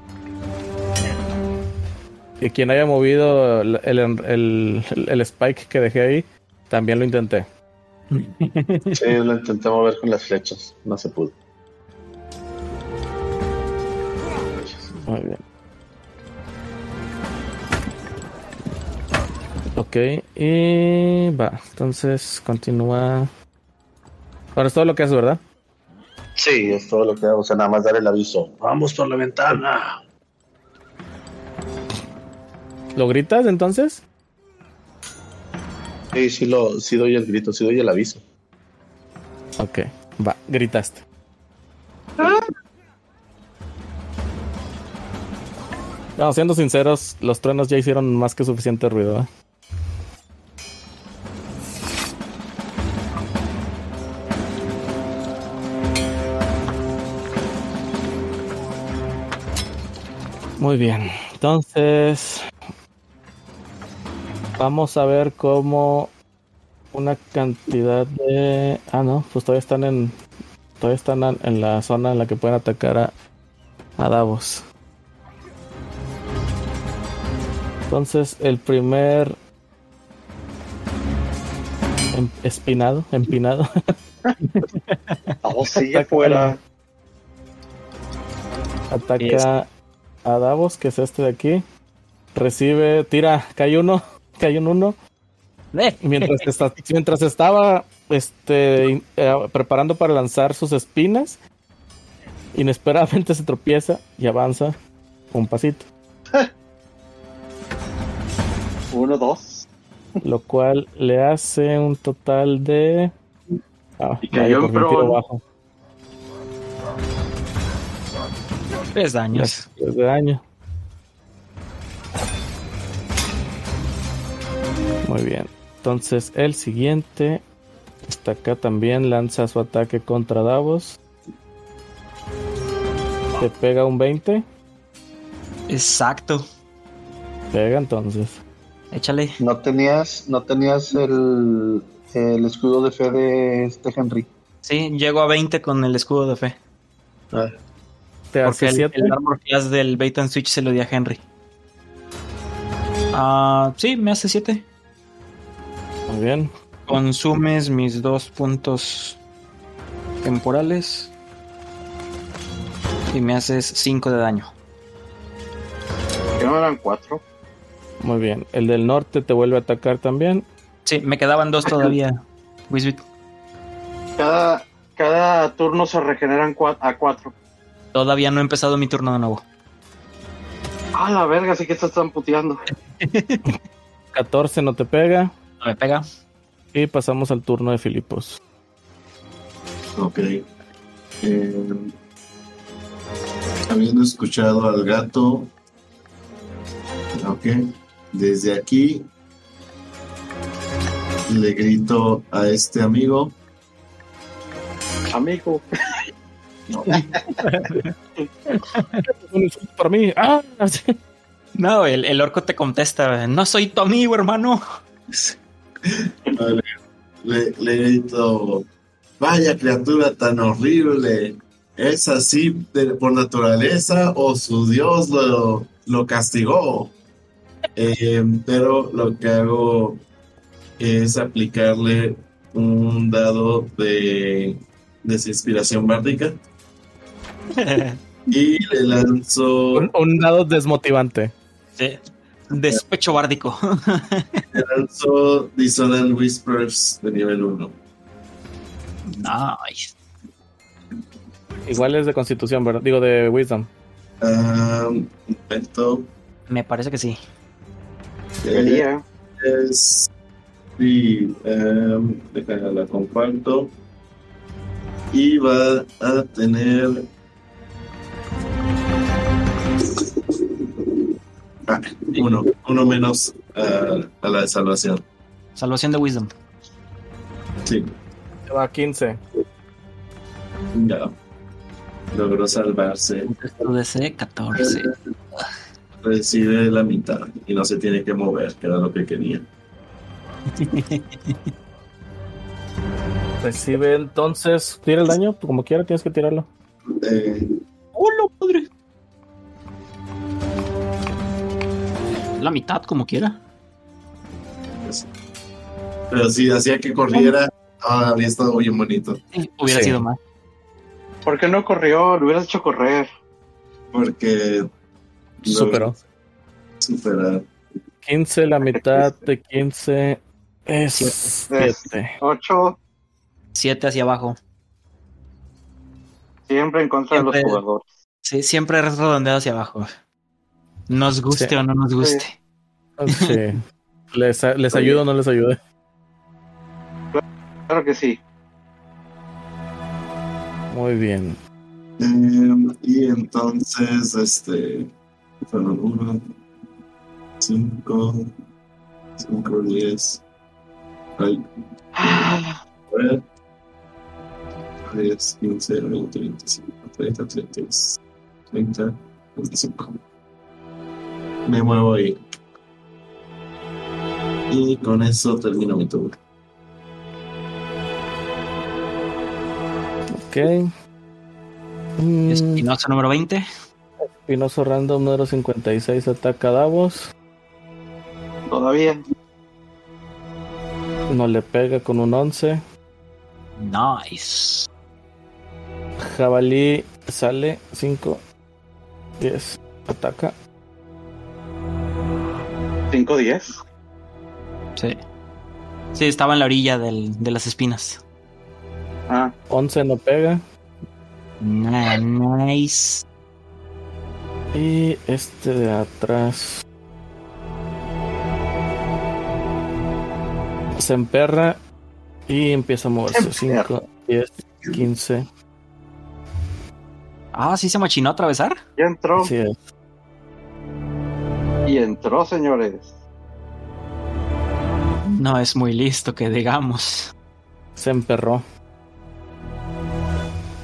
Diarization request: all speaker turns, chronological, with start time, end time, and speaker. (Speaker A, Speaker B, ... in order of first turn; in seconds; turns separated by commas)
Speaker A: 2.4-7.5, Speaker B: 8.1-9.0, Speaker C: 8.9-11.4, Speaker A: 15.1-15.4, Speaker A: 19.8-23.3, Speaker A: 24.6-25.4, Speaker C: 26.4-30.0, Speaker A: 33.0-34.0, Speaker C: 36.1-38.2, Speaker A: 39.6-41.0, Speaker A: 46.2-49.3, Speaker A: 60.6-62.4, Speaker A: 64.6-66.1, Speaker A: 66.9-70.1, Speaker A: 70.8-73.1, Speaker A: 74.0-74.6, Speaker A: 77.9-79.4, Speaker A: 82.1-83.9, Speaker B: 84.4-85.4, Speaker D: 85.4-86.6, Speaker A: 85.9-86.6, Speaker A: 88.9-89.7, Speaker B: 89.2-89.5, Speaker A: 90.2-91.6, Speaker A: 92.3-95.0, Speaker B: 95.7-96.5, Speaker A: 96.0-101.4, Speaker A: 102.5-104.8, Speaker A: 105.3-105.9, Speaker D: 108.9-109.7, Speaker A: 110.2-113.1, Speaker A: 114.0-115.4, Speaker D: 114.2-115.2, Speaker B: 118.9-119.7, Speaker A: 119.3-120.4, Speaker A: 125.0-127.4, Speaker A: 128.1-131.0, Speaker A: 133.4-134.4, Speaker B: 135.7-136.4, Speaker A: 137.5-138.4, Speaker B: 138.9-139.4, Speaker C: 139.4-144.3, Speaker B: 144.6-146.6, Speaker A: 148.3-149.1, Speaker B: 148.4-151.2, Speaker B: 153.1-154.7, Speaker A: 156.1-156.5, Speaker B: 156.9-159.2, Speaker B: 160.2-161.1, Speaker B: 163.1-164.5, Speaker D: 166.4-167.2, Speaker A: 168.0-170.5, Speaker B: 170.9-173.0, Speaker D: 174.2-177.3, Speaker B: 177.9-179.4, Speaker D: 180.9-182.6, Speaker B: 183.0-183.5, Speaker A: 184.1-185.3, Speaker B: 185.6-186.1, Speaker A: 186.7-188.4, Speaker E: 190.0-190.5, Speaker E: 191.2-191.9, Speaker E: 193.7-195.5, Speaker E: 197.1-199.1, Speaker E: 201.3-203.3, Speaker D: 205.1-205.7, Speaker E: 206.7-207.0, Speaker B: 207.4-207.9, Speaker B: 208.6-209.0, Speaker A: 209.3-210.9, Speaker B: 211.6-214.6, Speaker E: 215.1-216.7, Speaker E: 217.2-218.7, Speaker E: 219.2-226.9, Speaker E: 227.8-230.0, Speaker E: 230.8-236.4, Speaker B: 237.6-238.0, Speaker E: 238.3-239.9, Speaker A: 239.8-241.3, Speaker B: 242.5-244.4, Speaker E: 244.5-247.8, Speaker B: 249.1-249.9, Speaker A: 251.7-253.7, Speaker E: 254.2-256.1, Speaker B: 256.5-257.2, Speaker E: 258.4-258.9, Speaker D: 258.5-259.0, Speaker E: 259.4-260.1, Speaker E: 260.8-263.7, Speaker E: 265.1-267.1, Speaker E: 271.7-275.0, Speaker B: 275.6-276.3, Speaker E: 277.6-278.0, Speaker A: 278.5-279.2, Speaker E: 280.7-281.1, Speaker E: 282.1-283.3, Speaker B: 283.2-284.9, Speaker E: 284.6-284.9, Speaker E: 286.0-289.5, Speaker B: 290.6-291.4, Speaker A: 293.4-296.5, Speaker E: 296.9-297.6, Speaker B: 297.9-298.7, Speaker B: 302.4-303.4, Speaker E: 304.8-305.1, Speaker E: 306.1-310.0, Speaker B: 309.3-310.2, Speaker D: 311.3-313.1, Speaker E: 313.9-314.7, Speaker E: 315.4-316.0, Speaker A: 315.5-315.9, Speaker E: 316.8-317.5, Speaker A: 318.1-322.1, Speaker D: 318.7-319.2, Speaker B: 320.9-321.2, Speaker D: 321.5-322.8, Speaker B: 323.6-324.4, Speaker D: 326.5-327.8, Speaker B: 327.1-327.6, Speaker B: 328.2-329.9, Speaker B: 330.9-332.4, Speaker A: 333.0-333.6, Speaker A: 334.1-335.6, Speaker D: 334.7-335.0, Speaker D: 337.1-338.2, Speaker A: 340.7-341.4, Speaker E: 342.0-344.9, Speaker E: 345.4-346.2, Speaker E: 347.4-348.2, Speaker E: 349.2-350.2, Speaker D: 352.0-352.6, Speaker E: 352.0-352.3, Speaker E: 352.9-353.2, Speaker E: 354.9-358.0, Speaker E: 358.5-360.0, Speaker E: 361.5-362.2, Speaker E: 364.5-366.2, Speaker A: 370.2-370.7, Speaker A: 372.0-372.7, Speaker B: 372.3-373.4, Speaker A: 374.1-377.1, Speaker D: 378.5-379.0, Speaker A: 381.1-382.6, Speaker B: 383.6-384.7, Speaker A: 386.0-388.2, Speaker A: 389.2-390.4, Speaker D: 392.9-393.6, Speaker B: 395.9-398.0, Speaker A: 399.5-400.4, Speaker B: 401.4-403.0, Speaker A: 404.5-406.6, Speaker A: 410.8-411.6, Speaker A: 412.3-415.2, Speaker D: 413.1-413.7, Speaker B: 417.3-418.6, Speaker D: 418.8-419.3, Speaker A: 419.2-419.5, Speaker D: 421.7-422.9, Speaker B: 425.2-427.1, Speaker A: 427.8-428.4